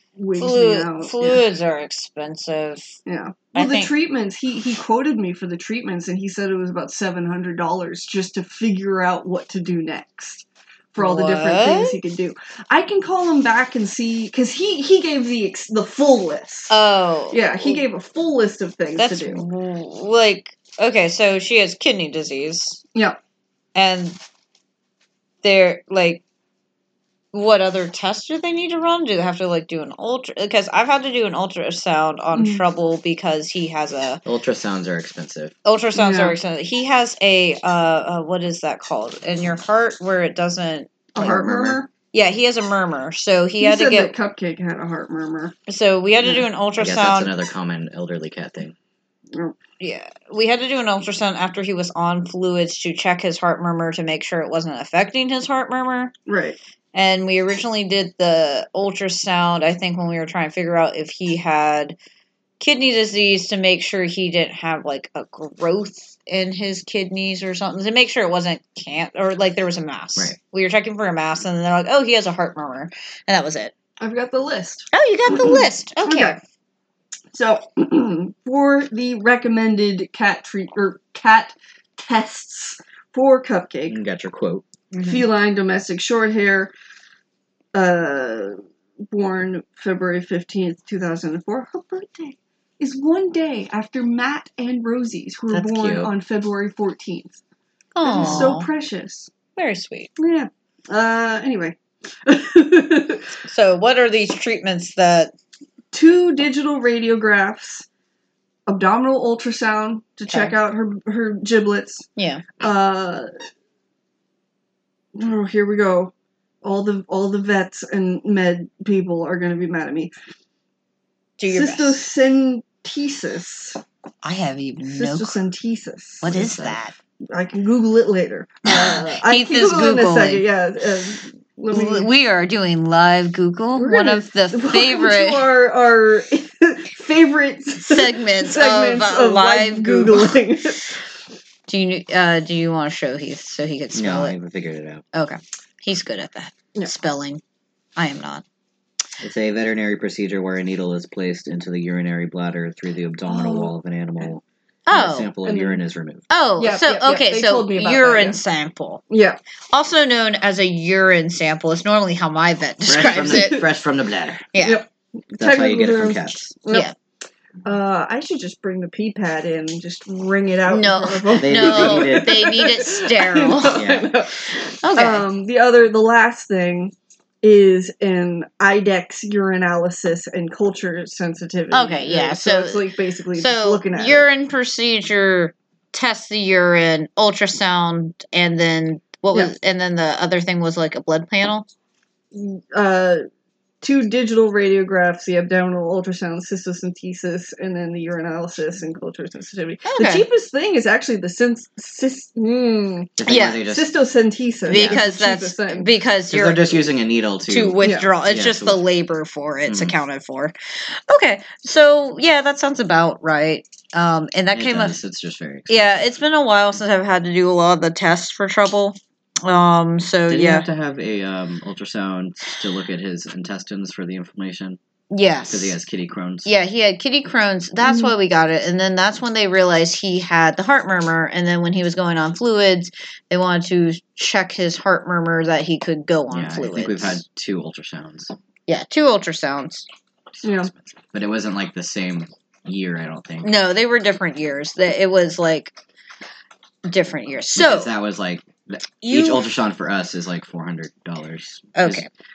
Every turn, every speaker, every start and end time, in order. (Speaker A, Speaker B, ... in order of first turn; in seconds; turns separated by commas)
Speaker A: 0.1-1.4, Speaker B: 0.4-3.0, Speaker A: 3.0-16.7, Speaker B: 3.5-3.9, Speaker B: 11.0-12.0, Speaker B: 16.7-17.8, Speaker A: 17.3-19.4, Speaker B: 19.0-22.8, Speaker B: 23.7-24.2, Speaker B: 25.4-26.2, Speaker B: 27.3-34.2, Speaker A: 32.3-32.6, Speaker C: 34.2-35.5, Speaker B: 35.6-44.1, Speaker A: 36.0-36.4, Speaker A: 41.1-41.9, Speaker C: 41.2-41.8, Speaker A: 43.6-45.5, Speaker B: 45.7-47.3, Speaker C: 46.8-48.7, Speaker B: 49.8-56.1, Speaker A: 56.3-56.6, Speaker B: 56.9-62.0, Speaker B: 62.6-73.7, Speaker A: 74.0-76.4, Speaker B: 74.9-76.4, Speaker A: 77.3-84.0, Speaker C: 83.9-84.6, Speaker B: 84.9-85.2, Speaker A: 85.0-86.7, Speaker A: 87.7-97.4, Speaker C: 95.5-96.1, Speaker B: 97.9-98.7, Speaker A: 98.0-99.3, Speaker B: 99.5-100.1, Speaker A: 100.2-103.3, Speaker B: 103.4-105.3, Speaker A: 105.9-107.8, Speaker A: 108.7-112.1, Speaker B: 110.3-110.5, Speaker B: 112.2-112.5, Speaker A: 112.6-113.3, Speaker A: 115.1-116.1, Speaker A: 116.6-120.1, Speaker B: 121.4-122.0, Speaker A: 121.5-123.8, Speaker B: 124.2-125.3, Speaker A: 124.9-126.3, Speaker B: 126.2-126.9, Speaker C: 126.2-126.8, Speaker A: 127.2-132.1, Speaker B: 128.6-130.4, Speaker B: 131.7-135.5, Speaker A: 133.8-141.0, Speaker B: 137.8-140.4, Speaker B: 141.7-144.3, Speaker C: 143.9-145.0, Speaker B: 145.1-147.4, Speaker B: 147.9-148.4, Speaker C: 149.2-154.3, Speaker A: 153.3-154.4, Speaker B: 154.9-155.3, Speaker C: 154.9-156.2, Speaker A: 155.4-155.8, Speaker B: 156.3-159.0, Speaker A: 156.6-158.4, Speaker A: 159.1-159.4, Speaker B: 159.7-163.6, Speaker C: 162.8-164.5, Speaker B: 164.5-164.8, Speaker A: 164.6-166.9, Speaker C: 165.4-166.5, Speaker A: 167.6-184.3, Speaker B: 170.7-173.8, Speaker C: 171.4-172.4, Speaker C: 173.7-174.1, Speaker B: 174.8-175.2, Speaker B: 181.7-191.7, Speaker A: 192.3-193.2, Speaker A: 193.8-205.9, Speaker B: 199.9-200.2, Speaker C: 203.2-203.9, Speaker B: 203.2-203.6, Speaker B: 204.7-206.8, Speaker C: 206.3-208.8, Speaker B: 207.5-215.0, Speaker A: 207.8-208.1, Speaker C: 209.7-209.9, Speaker C: 214.5-215.9, Speaker B: 215.7-220.7, Speaker C: 220.3-224.8, Speaker B: 225.1-225.8, Speaker C: 225.5-226.5, Speaker B: 226.4-237.2, Speaker A: 227.8-228.1, Speaker C: 236.3-238.3, Speaker B: 238.7-239.9, Speaker C: 240.4-243.5, Speaker A: 240.4-240.7, Speaker B: 243.4-245.7, Speaker B: 246.8-247.9, Speaker C: 247.5-252.0, Speaker B: 249.0-249.4, Speaker B: 251.7-252.1